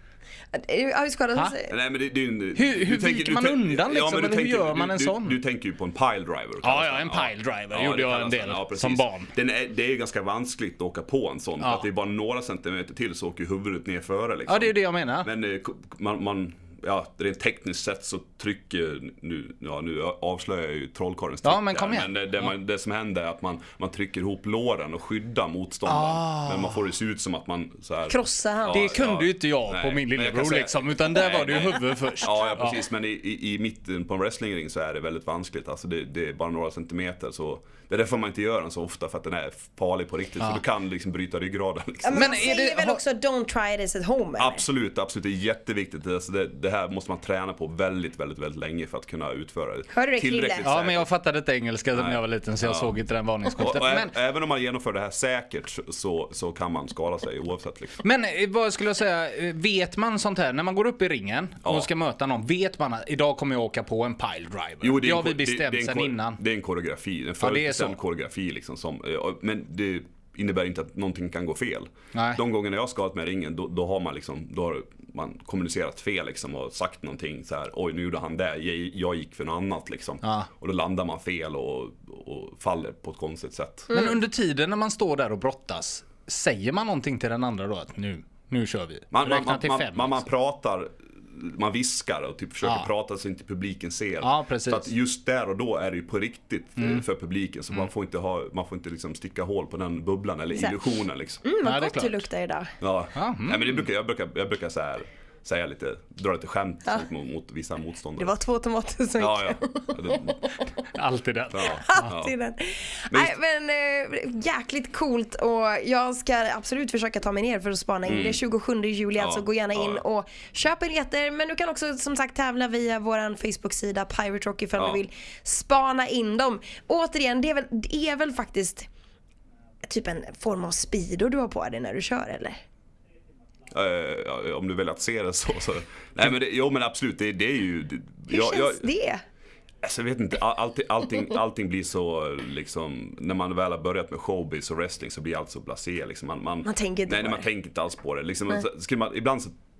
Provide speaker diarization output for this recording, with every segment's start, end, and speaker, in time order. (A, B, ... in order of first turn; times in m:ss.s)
0:00.5-0:01.7 A
0:01.7-0:42.5 B
0:02.5-0:05.4 C
0:06.6-0:09.3 C
0:11.6-0:11.9 C
0:14.5-0:15.3 C
0:21.4-0:22.5 C
0:25.8-0:26.8 C
0:28.1-0:28.9 A
0:28.7-0:32.8 C
0:42.0-0:44.6 A
0:42.1-0:43.0 C
0:44.4-0:51.1 B
0:49.9-0:50.7 A
0:50.6-0:54.1 C
0:51.9-0:53.0 B
0:53.6-0:58.0 B
0:58.0-1:06.4 C
1:01.6-1:01.9 B
1:04.8-1:23.9 B
1:07.4-1:08.0 C
1:12.1-1:12.4 C
1:20.2-1:20.5 C
1:23.9-1:24.2 A
1:23.9-1:30.2 C
1:29.1-1:41.4 B
1:32.6-1:32.9 C
1:34.2-1:34.9 C
1:36.8-1:37.0 C
1:41.4-1:42.7 A
1:41.6-1:42.3 C
1:42.8-1:48.4 B
1:43.1-1:43.8 C
1:48.2-1:50.6 A
1:49.2-1:50.5 B
1:50.9-1:52.1 C
1:51.5-1:52.3 B
1:51.6-2:08.9 A
1:53.1-1:53.4 B
1:58.0-1:58.4 B
1:59.2-2:00.0 B
2:04.8-2:05.0 B
2:09.8-2:12.6 A
2:13.7-2:18.9 B
2:18.3-2:19.2 A
2:19.8-2:29.5 B
2:26.6-2:27.5 A